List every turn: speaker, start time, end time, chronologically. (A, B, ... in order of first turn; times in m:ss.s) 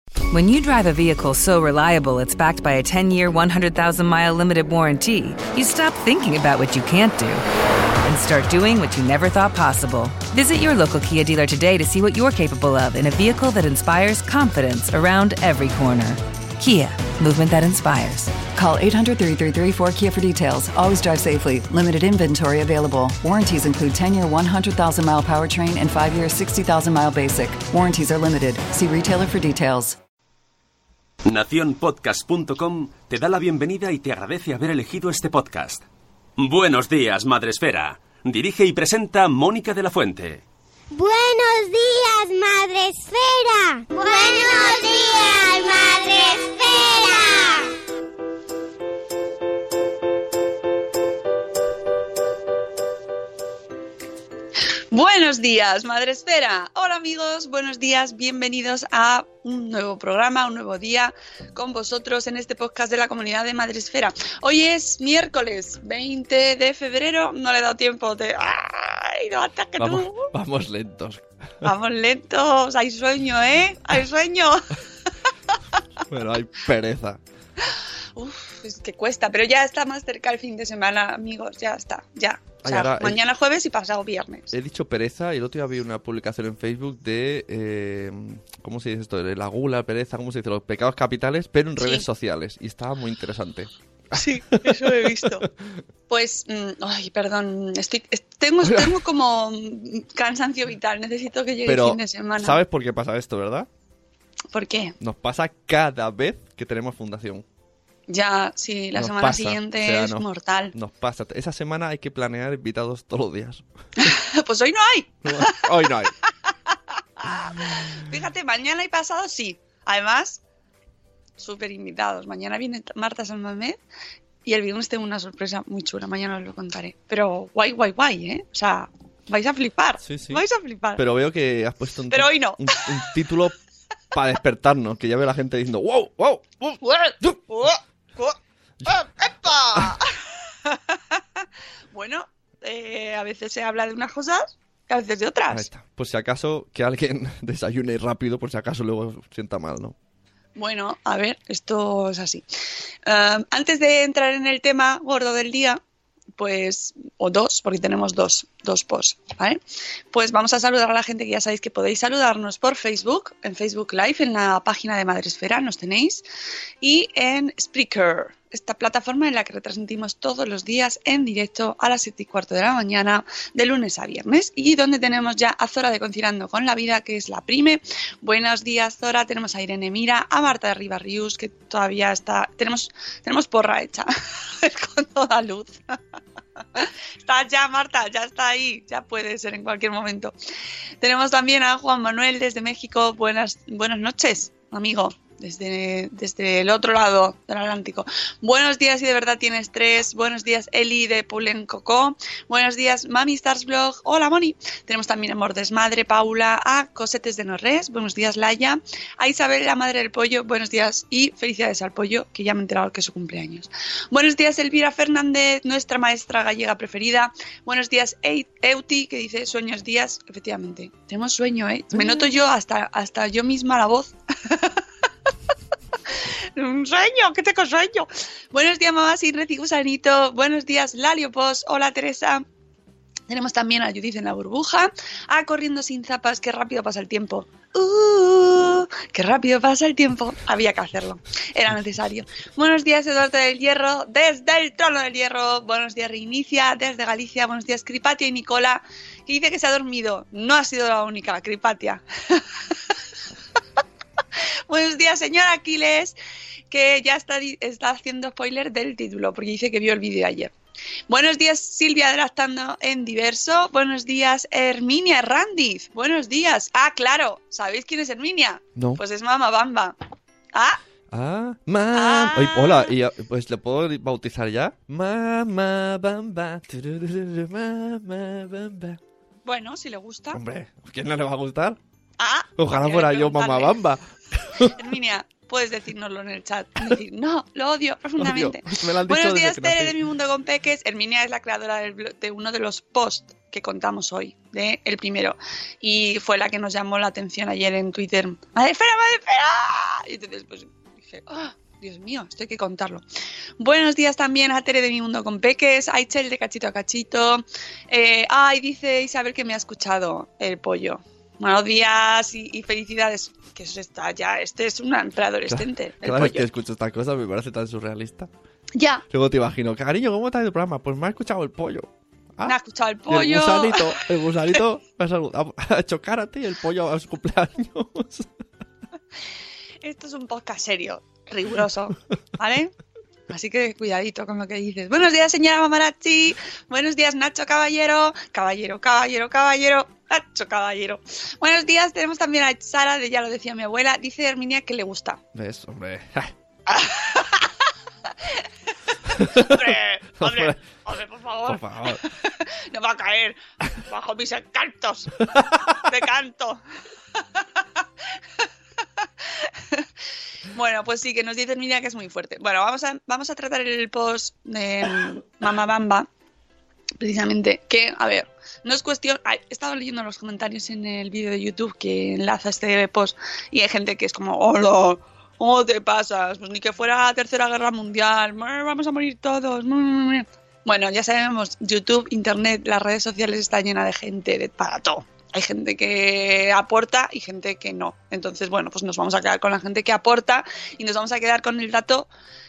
0:00.3-0:07.4 A
0:08.0-0:18.4 A
0:18.4-0:30.0 B
0:31.3-0:35.8 C
0:36.4-0:40.4 C
0:40.9-0:47.7 D
0:54.9-1:10.3 E
1:09.8-1:11.7 F
1:11.6-1:14.8 E
1:16.1-1:17.2 F
1:18.2-1:24.5 E
1:22.6-1:23.2 F
1:24.5-1:35.4 F
1:31.8-1:32.0 E
1:34.1-1:35.5 E
1:36.1-1:42.6 E
1:38.6-1:39.0 F
1:41.7-1:43.7 F
1:44.5-1:45.0 E
1:45.0-1:47.4 F
1:48.1-1:50.7 E
1:49.0-1:53.7 F
1:54.0-1:55.9 E
1:55.2-1:56.1 F
1:57.2-2:00.4 E
1:57.3-1:57.9 F
2:01.4-2:03.8 E
2:04.4-2:11.0 E
2:10.0-2:13.6 F
2:12.1-2:13.1 E
2:14.1-2:17.4 F
2:16.8-2:21.4 E
2:19.7-2:20.0 F
2:21.9-2:25.7 E
2:25.5-2:30.0 F
2:30.6-2:32.4 E
2:33.1-2:35.8 E
2:36.4-2:39.6 E
2:40.1-2:46.2 E
2:46.8-3:06.0 E
3:06.8-3:10.3 E
3:11.0-3:44.8 E
3:46.2-3:52.4 E
3:53.3-4:12.5 E
4:14.7-4:16.2 E
4:16.7-4:20.5 E
4:21.1-4:30.0 E
4:28.8-4:29.0 F
4:30.5-4:30.8 E
4:31.1-4:39.0 F
4:31.9-4:32.9 E
4:39.4-4:40.4 E
4:40.3-4:41.8 F
4:42.2-4:43.8 E
4:42.6-4:44.9 F
4:44.6-5:03.0 E
4:48.2-4:50.0 F
5:03.6-5:16.5 E
5:15.5-5:18.3 F
5:18.8-5:19.0 E
5:19.1-5:22.6 F
5:22.4-5:24.0 E
5:23.1-5:28.3 F
5:29.8-5:32.7 E
5:33.3-5:45.2 E
5:45.3-5:46.3 F
5:46.7-5:47.5 E
5:49.2-5:49.6 F
5:49.2-5:56.6 E
5:50.2-5:50.6 F
5:51.5-5:52.0 F
5:55.4-5:55.6 F
5:57.2-5:57.8 E
5:59.0-5:59.9 E
6:00.5-6:06.1 E
6:07.0-6:32.1 E